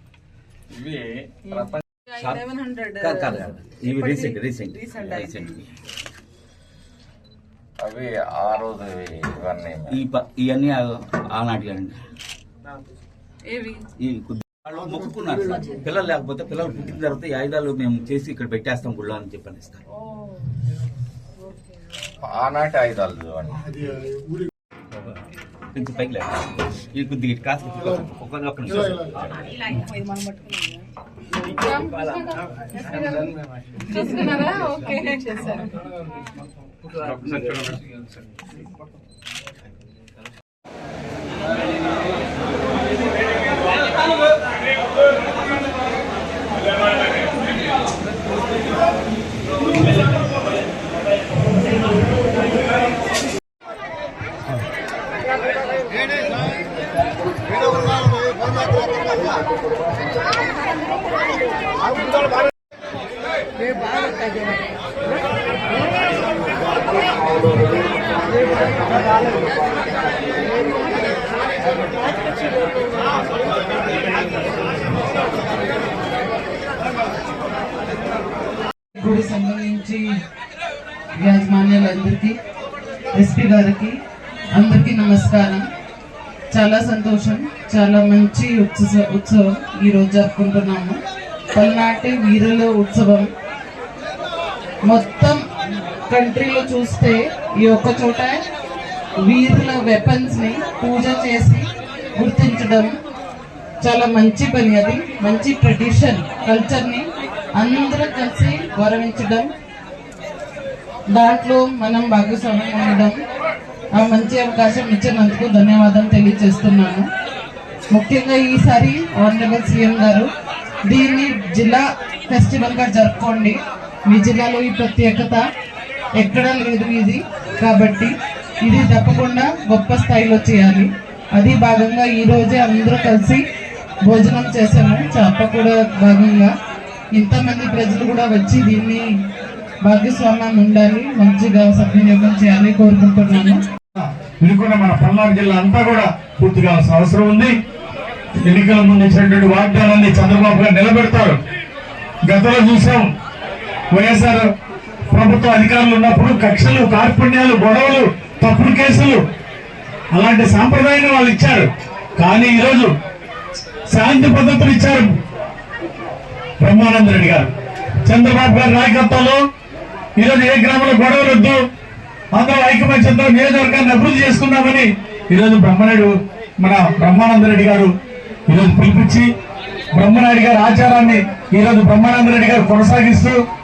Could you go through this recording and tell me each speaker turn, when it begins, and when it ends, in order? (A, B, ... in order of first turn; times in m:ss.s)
0:00.7-0:01.8 A
0:02.2-0:05.7 B
0:02.6-0:03.1 C
0:07.8-0:10.0 A
0:09.9-0:12.0 B
0:13.5-0:13.8 C
0:14.0-0:19.8 B
0:22.2-0:23.9 A
0:25.7-0:26.4 B
0:26.9-0:29.7 B
0:31.6-0:33.3 C
0:33.9-0:35.8 C
0:37.0-0:37.8 B
1:19.0-1:20.0 D
1:21.2-1:22.4 D
1:23.2-1:24.0 D
1:24.6-1:25.7 D
1:26.5-1:31.0 D
1:31.5-1:33.3 D
1:34.9-1:35.4 D
1:36.1-1:38.4 D
1:39.2-1:42.9 D
1:43.8-1:49.5 D
1:51.1-1:53.2 D
1:54.0-1:57.1 D
1:57.9-2:00.3 D
2:00.9-2:05.4 D
2:06.2-2:08.1 D
2:08.6-2:13.4 D
2:14.0-2:16.5 D
2:17.1-2:19.0 D
2:19.8-2:23.6 D
2:24.0-2:27.5 E
2:28.5-2:31.4 E
2:32.3-2:33.1 E
2:33.9-2:34.5 E
2:35.1-2:39.2 E
2:40.1-2:41.7 E
2:42.2-2:42.9 E
2:43.9-2:45.1 E
2:46.6-2:47.5 E
2:48.0-2:49.4 E
2:50.2-2:51.6 E
2:52.4-2:57.9 E
2:58.5-2:59.3 E
3:00.0-3:03.4 E